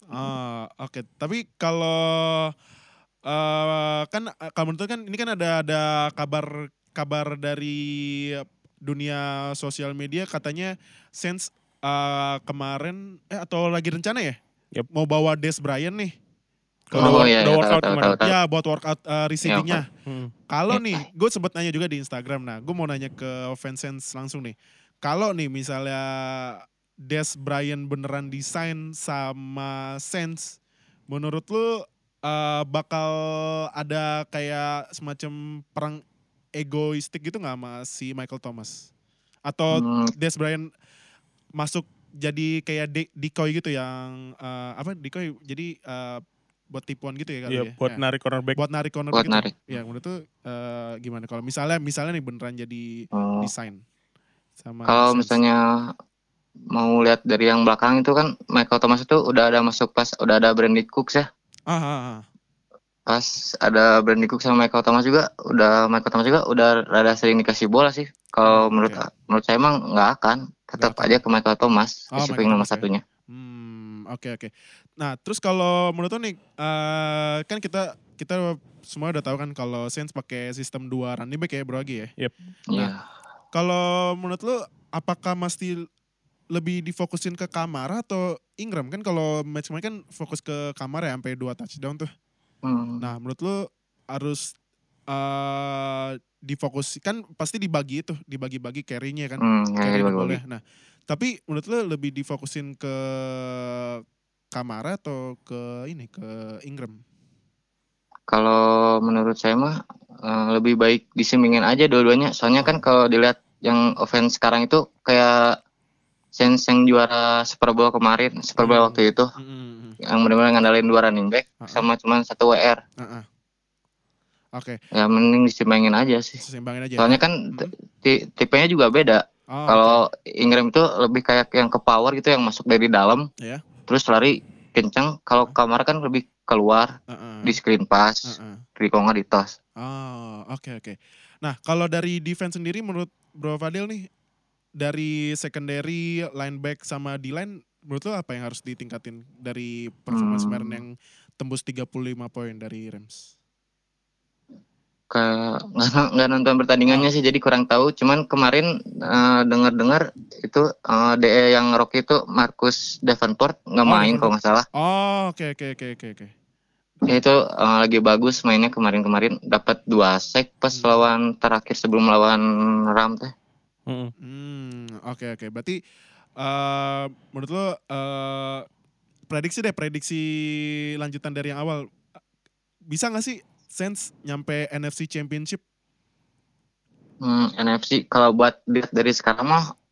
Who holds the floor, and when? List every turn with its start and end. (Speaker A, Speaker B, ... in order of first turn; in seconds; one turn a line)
Speaker A: 0.1-2.5
Speaker A: 3.3-14.4
Speaker A: 14.9-16.1
Speaker A: 16.9-17.3
Speaker B: 16.9-18.2
Speaker C: 17.0-18.4
Speaker A: 18.2-19.9
Speaker C: 19.4-19.8
Speaker B: 20.1-20.3
Speaker A: 20.5-30.6
Speaker C: 20.7-21.0
Speaker A: 31.1-36.0
Speaker A: 36.6-38.9
Speaker A: 39.5-40.7
Speaker C: 39.7-40.1
Speaker A: 41.6-48.0
Speaker B: 47.5-48.6
Speaker A: 48.6-53.8
Speaker C: 49.1-49.6
Speaker C: 53.1-53.5
Speaker A: 54.6-55.4
Speaker C: 54.9-55.9
Speaker C: 56.7-61.3
Speaker A: 61.7-62.2
Speaker C: 63.1-73.0
Speaker A: 68.5-69.0
Speaker A: 70.8-71.2
Speaker A: 72.1-82.1
Speaker C: 82.7-83.0
Speaker A: 83.5-85.9
Speaker A: 86.5-92.1
Speaker C: 92.6-93.0
Speaker A: 93.0-94.5
Speaker A: 95.1-104.0
Speaker C: 99.4-100.4
Speaker A: 104.5-107.0
Speaker C: 108.3-115.6
Speaker C: 116.3-119.3
Speaker A: 118.6-120.0
Speaker C: 120.0-122.8
Speaker A: 121.6-121.9
Speaker A: 123.0-123.3
Speaker C: 124.9-126.4
Speaker A: 126.4-127.7
Speaker C: 127.0-133.3
Speaker A: 129.5-130.0
Speaker C: 133.9-139.5
Speaker A: 137.1-137.6
Speaker A: 138.2-138.6
Speaker A: 139.8-144.1
Speaker A: 144.8-153.3
Speaker C: 150.1-150.8
Speaker C: 155.1-164.7
Speaker A: 163.8-166.3
Speaker C: 167.1-173.3
Speaker A: 170.7-171.0
Speaker B: 173.9-174.1
Speaker A: 174.2-175.8
Speaker A: 176.4-178.7
Speaker A: 179.3-181.9
Speaker A: 182.9-185.6
Speaker C: 187.2-189.7